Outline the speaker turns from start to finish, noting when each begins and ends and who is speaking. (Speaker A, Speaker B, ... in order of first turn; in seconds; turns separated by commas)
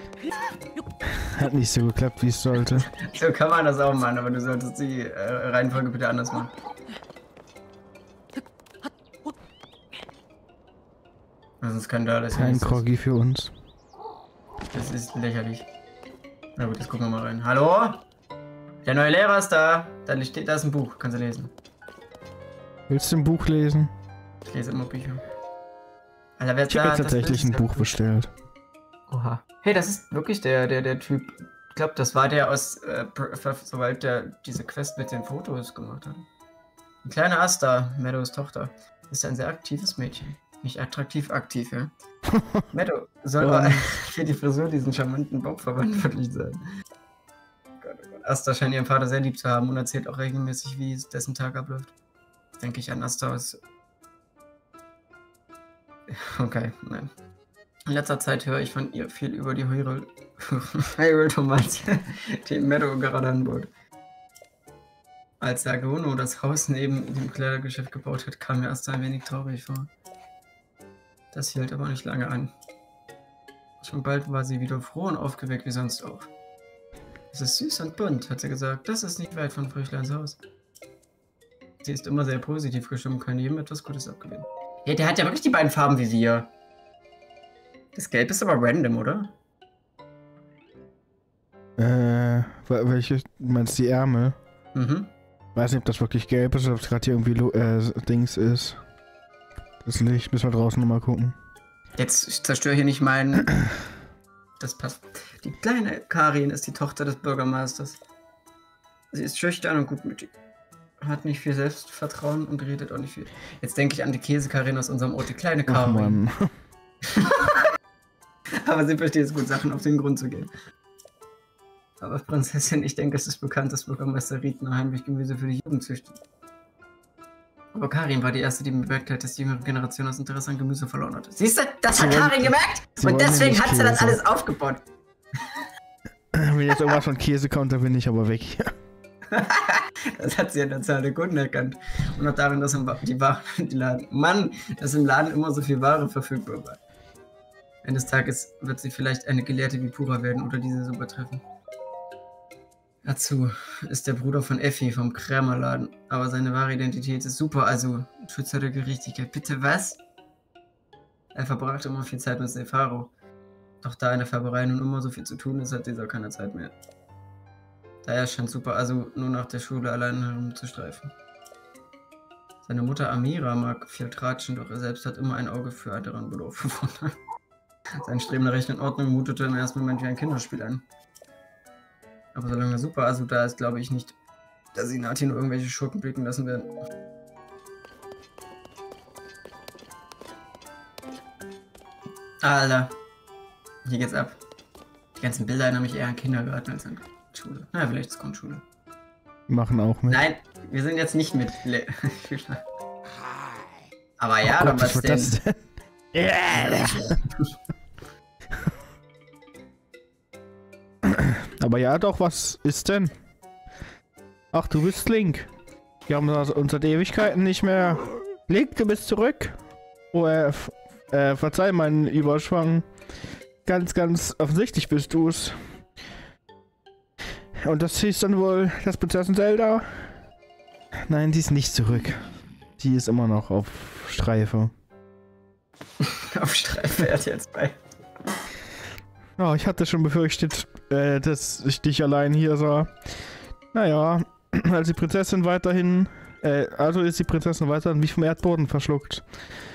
Speaker A: 1.1-2.9, Speaker B: 2.7-6.5, Speaker B: 11.6-12.8, Speaker A: 12.3-13.5, Speaker B: 14.7-15.7, Speaker B: 16.6-18.1, Speaker B: 18.8-21.5, Speaker A: 22.9-23.9, Speaker B: 24.5-25.2, Speaker B: 26.4-28.0, Speaker A: 26.7-28.3, Speaker B: 29.1-36.3, Speaker B: 37.0-41.9, Speaker A: 42.3-42.7, Speaker B: 42.7-46.6, Speaker A: 43.4-43.9, Speaker B: 47.8-51.9, Speaker B: 52.6-53.6, Speaker B: 56.1-57.1, Speaker B: 57.9-63.7, Speaker B: 65.4-69.9, Speaker B: 71.3-72.5, Speaker B: 73.8-76.3, Speaker B: 77.3-80.4, Speaker B: 81.8-86.5, Speaker B: 88.0-89.3, Speaker A: 91.8-94.4, Speaker B: 94.7-95.1, Speaker A: 95.5-98.8, Speaker A: 99.8-101.4, Speaker B: 102.0-103.5, Speaker B: 104.6-108.0, Speaker B: 109.1-110.3, Speaker B: 111.0-116.2, Speaker A: 115.7-116.5, Speaker B: 117.0-117.6, Speaker B: 118.6-120.5, Speaker B: 122.0-126.2, Speaker B: 127.7-134.8, Speaker A: 131.9-134.2, Speaker A: 136.3-138.7, Speaker B: 136.7-137.0, Speaker B: 139.3-146.8, Speaker B: 147.8-151.4, Speaker B: 153.0-160.0, Speaker B: 161.3-163.1, Speaker B: 163.8-166.7, Speaker B: 168.0-171.1, Speaker B: 172.6-177.1, Speaker B: 178.0-180.8, Speaker B: 182.3-184.2, Speaker B: 184.7-186.7, Speaker B: 192.4-192.9, Speaker B: 193.8-194.4, Speaker B: 195.2-198.6, Speaker A: 199.5-200.2, Speaker B: 200.1-202.6, Speaker B: 204.2-205.4, Speaker A: 204.4-207.2, Speaker B: 206.5-207.5, Speaker A: 211.1-213.2, Speaker A: 214.5-215.5, Speaker A: 216.1-219.6, Speaker A: 220.1-222.9, Speaker A: 223.7-225.8, Speaker A: 227.6-230.2, Speaker A: 231.1-234.7, Speaker B: 236.0-237.8, Speaker A: 239.4-249.5